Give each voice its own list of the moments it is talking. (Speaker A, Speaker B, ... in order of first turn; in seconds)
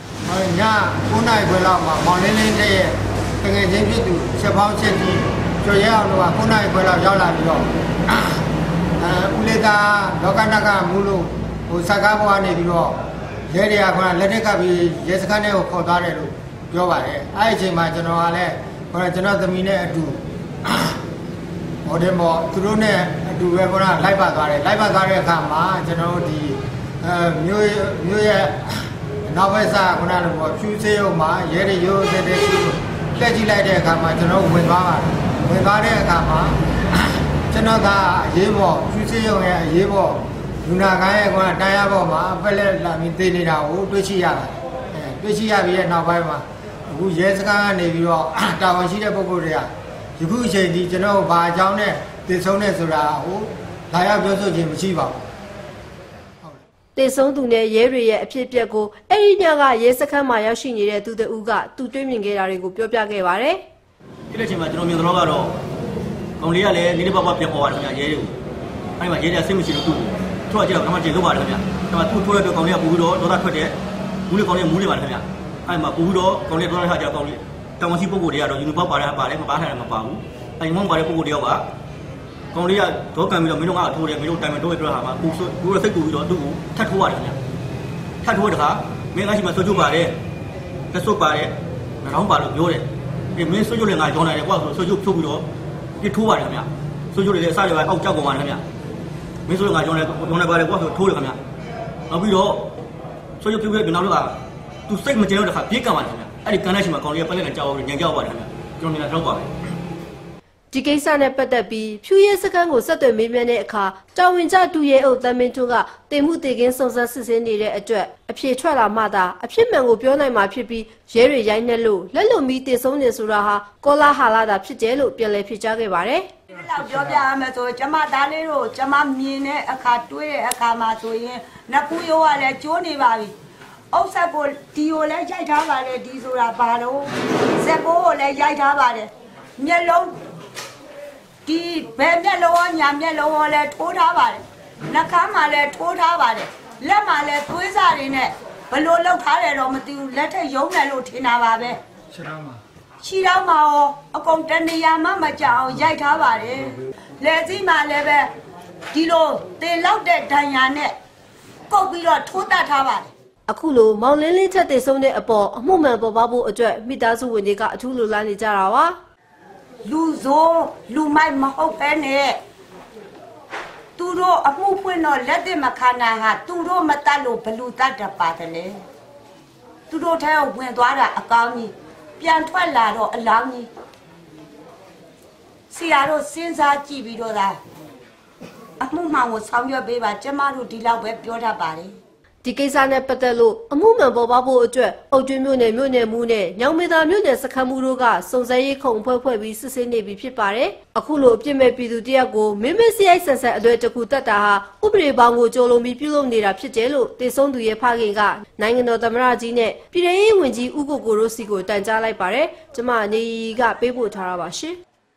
Speaker A: 0.2-8.4, 9.0-13.0, 13.5-21.0, 21.8-55.2, 152.1-152.6
Speaker B: 57.0-63.6, 110.7-126.3, 163.5-168.9, 192.4-214.8
Speaker C: 64.3-65.5, 66.4-68.3, 69.0-81.7, 82.5-87.4, 88.2-90.2, 90.9-95.5, 96.0-98.6, 99.5-101.4, 102.1-102.7, 103.4-109.5
Speaker D: 126.5-133.3, 133.9-140.2, 141.4-151.8, 153.0-158.3, 158.9-160.9, 161.7-163.1, 169.8-172.4, 173.9-178.8, 179.9-183.7, 185.7-187.6, 188.8-192.0